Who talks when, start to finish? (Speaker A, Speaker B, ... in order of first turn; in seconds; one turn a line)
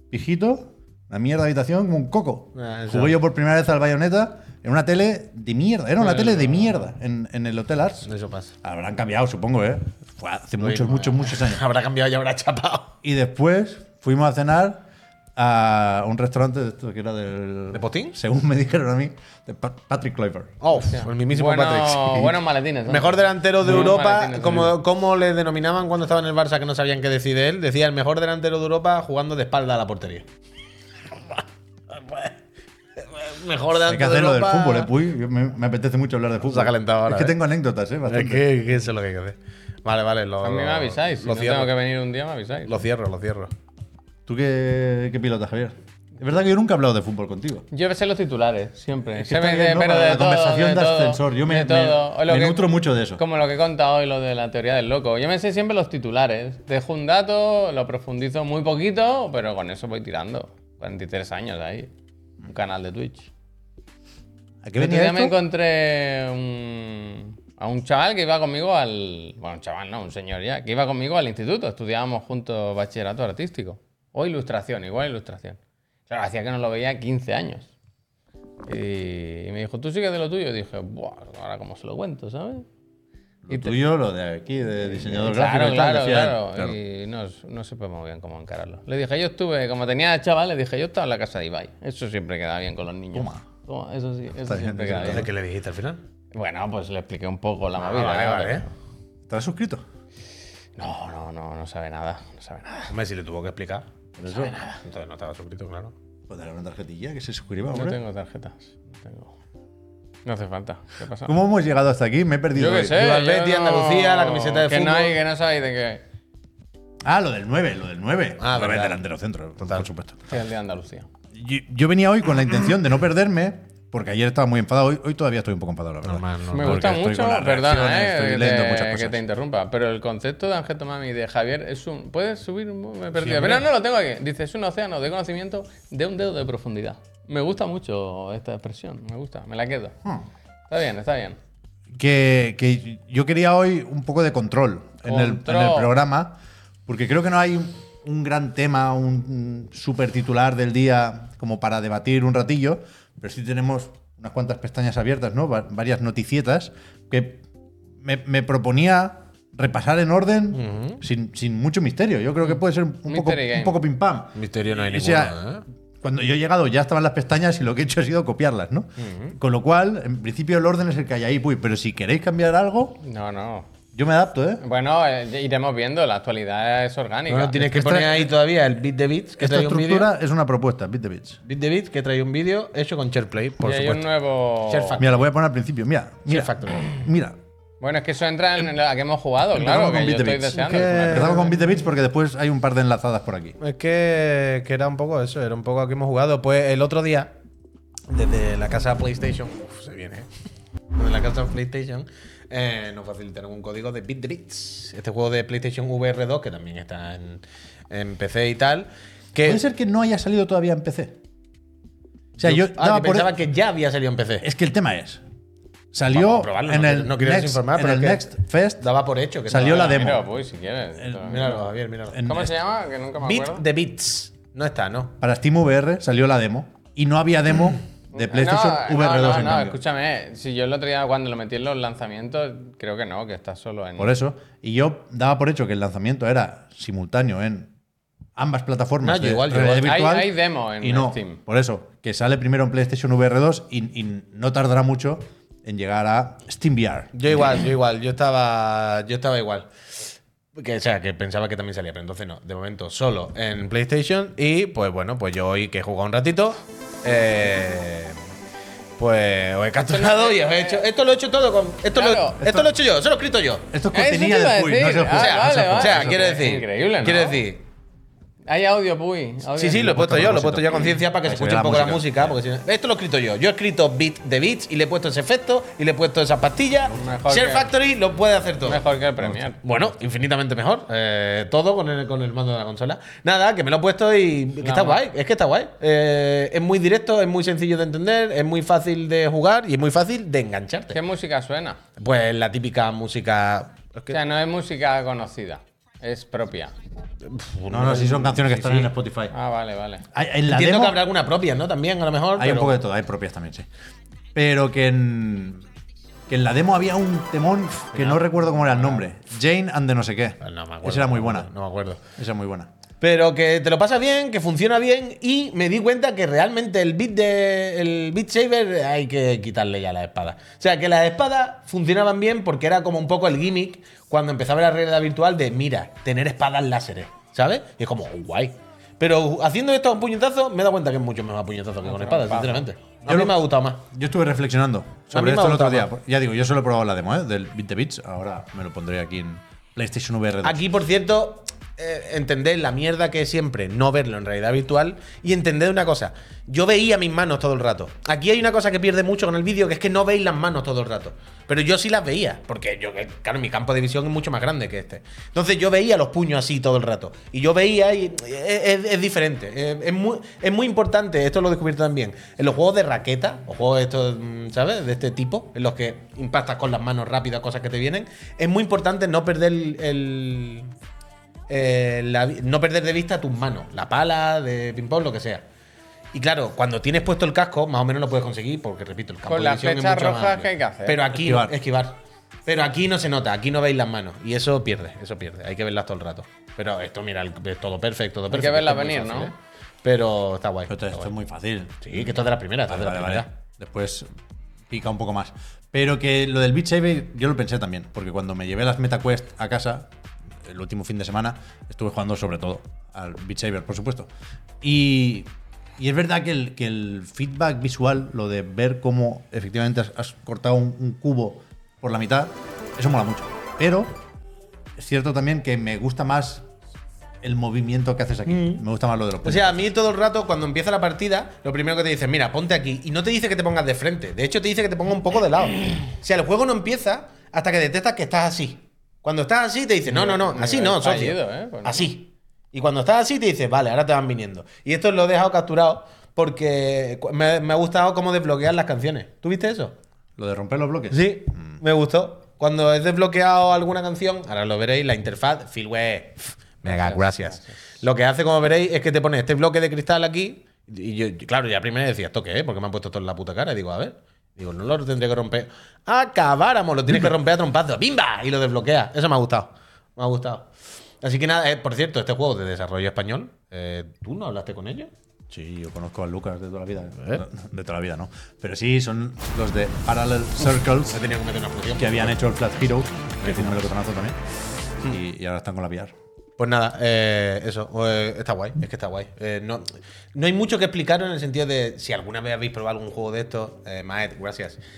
Speaker A: 0.1-8.1
Speaker B: 2.5-3.2
Speaker C: 6.0-6.8
Speaker B: 8.1-8.5
Speaker A: 8.6-11.6
Speaker B: 10.6-12.9
Speaker A: 13.0-14.8
Speaker A: 15.3-20.6
Speaker B: 17.7-18.1
Speaker B: 20.6-30.2
Speaker C: 20.8-24.8
Speaker B: 31.2-32.3
Speaker B: 33.0-34.9
Speaker A: 33.8-38.5
Speaker B: 36.5-37.4
Speaker B: 38.1-41.7
Speaker C: 40.4-42.8
Speaker B: 42.7-43.5
Speaker A: 44.3-47.7
Speaker C: 47.7-61.9
Speaker A: 49.2-53.2
Speaker C: 62.4-63.3
Speaker A: 64.6-65.4
Speaker C: 64.8-77.7
Speaker C: 78.7-82.7
Speaker A: 83.4-86.8
Speaker C: 83.5-83.8
Speaker C: 84.9-95.3
Speaker A: 93.1-93.4
Speaker A: 94.4-95.3
Speaker B: 94.9-96.0
Speaker C: 96.3-98.7
Speaker B: 97.8-98.6
Speaker A: 99.3-99.8
Speaker C: 100.8-102.9
Speaker B: 102.9-103.8
Speaker A: 104.2-104.5
Speaker C: 104.4-104.8
Speaker B: 104.8-105.9
Speaker A: 106.3-108.0
Speaker C: 107.7-109.3
Speaker C: 110.2-111.3
Speaker A: 111.2-113.2
Speaker C: 112.5-116.0
Speaker B: 112.9-115.2
Speaker A: 117.0-120.3
Speaker B: 118.4-119.0
Speaker C: 120.3-121.1
Speaker A: 121.3-129.2
Speaker B: 126.0-126.9
Speaker C: 126.5-140.0
Speaker B: 133.2-133.7
Speaker C: 140.7-141.4
Speaker A: 141.9-157.4
Speaker C: 145.0-145.9
Speaker A: 158.0-165.4
Speaker B: 160.5-161.0
Speaker C: 162.5-163.8
Speaker B: 164.3-165.6
Speaker A: 166.0-173.0
Speaker B: 169.0-169.3
Speaker C: 173.0-173.7
Speaker A: 173.9-174.6
Speaker C: 174.6-177.7
Speaker B: 177.3-180.1
Speaker A: 177.6-178.3
Speaker A: 179.4-181.4
Speaker B: 181.4-184.1
Speaker C: 183.6-185.0
Speaker B: 184.7-185.2
Speaker A: 185.0-187.4
Speaker B: 186.3-186.8
Speaker C: 187.8-191.5
Speaker A: 189.5-193.6
Speaker B: 190.7-191.5
Speaker B: 193.6-197.3
Speaker B: 198.1-200.3
Speaker B: 200.9-209.6
Speaker A: 209.4-211.2
Speaker B: 212.4-214.4
Speaker A: 212.4-213.3
Speaker A: 214.4-215.2
Speaker A: 215.9-218.9
Speaker B: 216.1-220.1
Speaker A: 219.5-220.3
Speaker C: 219.6-221.7
Speaker A: 221.0-221.6
Speaker B: 221.2-222.3
Speaker A: 222.1-222.5
Speaker C: 222.2-223.6
Speaker B: 223.2-225.1
Speaker A: 225.2-229.8
Speaker C: 228.1-234.1
Speaker A: 234.0-237.7
Speaker A: 238.3-247.2
Speaker B: 239.0-239.9
Speaker C: 239.5-241.4
Speaker B: 247.1-249.7
Speaker B: 250.6-258.2
Speaker B: 259.0-263.7
Speaker C: 259.9-260.8
Speaker C: 261.9-262.4
Speaker A: 262.4-262.7
Speaker A: 263.7-266.4
Speaker C: 263.9-267.4
Speaker B: 265.1-267.6
Speaker C: 268.5-270.0
Speaker B: 269.6-278.8
Speaker A: 269.8-272.4
Speaker C: 276.9-277.7
Speaker C: 278.6-279.6
Speaker A: 279.2-279.4
Speaker B: 279.6-291.0
Speaker C: 284.6-285.0
Speaker C: 290.9-291.8
Speaker B: 292.0-294.2
Speaker C: 294.1-296.7
Speaker B: 297.2-298.9
Speaker A: 297.7-299.3
Speaker C: 299.3-300.1
Speaker A: 300.1-301.0
Speaker B: 300.5-302.8
Speaker A: 302.4-303.6
Speaker A: 304.3-305.6
Speaker A: 306.3-311.5
Speaker B: 307.9-309.1
Speaker B: 310.4-312.0
Speaker A: 312.1-312.7
Speaker B: 313.0-333.8
Speaker C: 331.8-332.7
Speaker A: 333.0-340.6
Speaker B: 335.1-335.9
Speaker B: 340.4-370.7
Speaker B: 371.5-375.4
Speaker B: 376.1-391.1
Speaker C: 379.3-381.0
Speaker A: 381.1-381.5
Speaker C: 388.3-389.3
Speaker A: 390.7-394.1
Speaker B: 391.8-393.3
Speaker A: 394.7-399.9
Speaker A: 400.4-404.1
Speaker A: 404.6-414.0
Speaker A: 414.8-416.4
Speaker A: 417.2-419.7
Speaker B: 418.3-418.6
Speaker B: 419.2-439.8
Speaker C: 429.9-431.9
Speaker A: 440.2-441.6
Speaker B: 440.9-460.5
Speaker C: 446.6-447.6
Speaker B: 461.0-464.9
Speaker A: 465.3-471.0
Speaker B: 470.7-472.2
Speaker A: 471.8-474.2
Speaker B: 473.2-473.7
Speaker A: 474.8-475.9
Speaker B: 476.4-484.6